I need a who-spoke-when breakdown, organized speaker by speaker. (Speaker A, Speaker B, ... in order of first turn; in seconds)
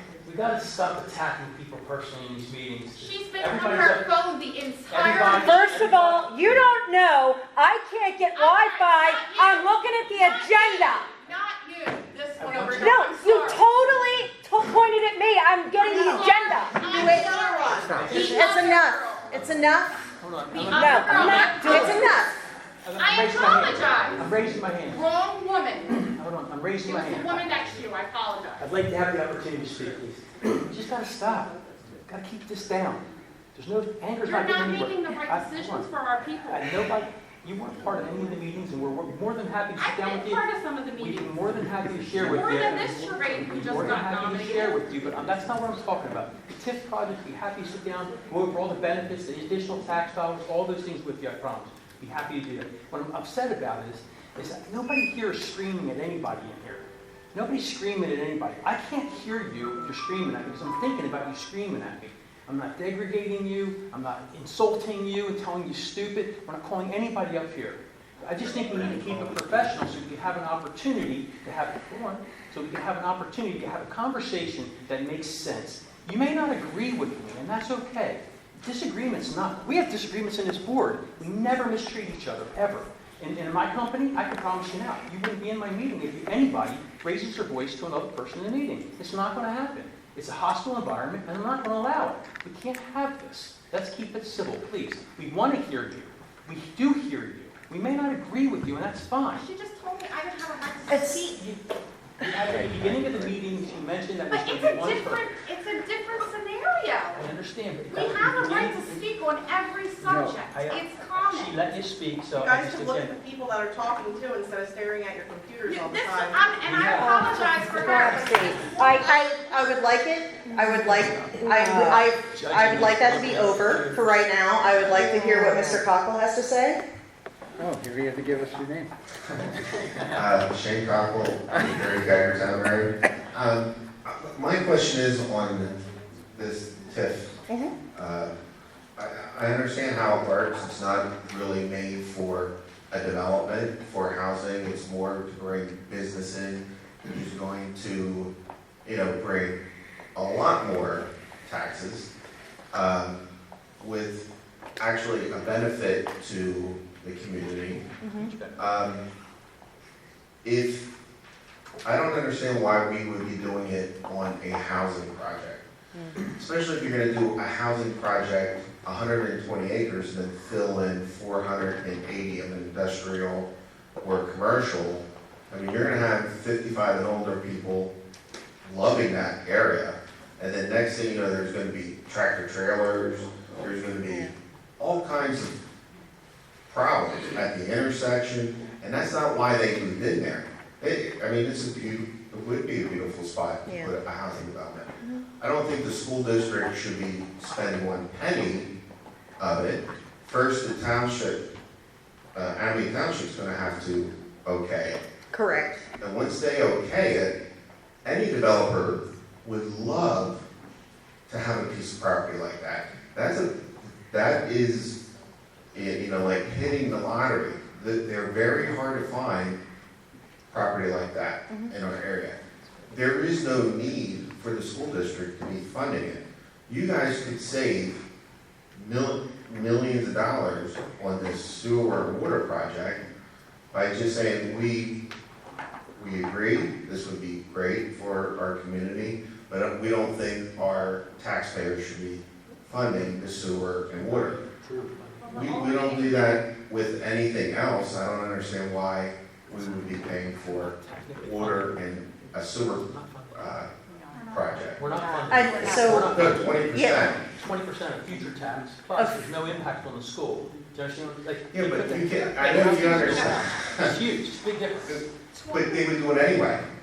Speaker A: 0.2-4.1, 4.9-6.2, 12.4-13.0, 18.0-18.5, 20.2-22.1, 22.8-25.1, 26.1-27.5, 28.6-31.5, 32.0-35.9, 36.5-40.4, 41.0-99.4, 102.2-105.3, 107.1-109.0, 110.5-113.1, 116.6-118.8, 120.8-121.4, 122.0-124.3, 158.2-158.6, 244.1-245.5, 249.5-253.6, 254.7-265.0
Speaker B: 3.0-6.0, 8.3-13.7, 15.9-19.4, 20.5-22.2, 23.0-24.3, 24.9-26.0, 26.8-28.6, 34.2-36.8, 39.8-41.5, 42.1-44.9, 99.3-101.3, 104.3-107.3, 107.9-111.6, 115.6-119.6, 245.2-246.4, 265.3-266.0
Speaker C: 5.1-11.1, 12.7-16.9, 20.7-22.0, 117.6-118.2, 120.5-122.1, 124.9-125.8, 254.9-256.0
Speaker D: 15.8-18.1, 112.3-116.6
Speaker E: 16.8-20.0, 21.6-22.4, 100.9-101.3, 117.0-126.8, 137.5-137.7, 158.0-158.3, 165.9-166.2, 184.0-184.3, 193.7-193.9, 205.3-205.8, 255.3-256.1, 256.7-257.1, 258.9-259.2
Speaker F: 17.8-18.1, 102.5-103.2, 110.0-110.4, 127.6-128.9
Speaker G: 69.0-69.3, 130.1-137.4, 137.9-138.3, 139.0-148.3, 148.8-149.6, 150.2-152.1, 152.7-153.2, 153.8-154.2, 154.8-157.8, 158.6-159.0, 160.4-160.9, 161.8-165.6, 166.2-173.5, 174.0-177.9, 178.6-185.5, 186.7-198.7, 199.4-201.4, 202.3-205.0, 206.0-207.3, 208.0-210.4, 211.3-215.0, 215.7-219.6, 220.5-222.4, 222.9-228.0, 228.7-233.0, 233.7-235.0, 235.9-244.4, 245.3-253.7, 254.3-254.8, 256.1-257.2, 261.5-263.9, 264.8-266.6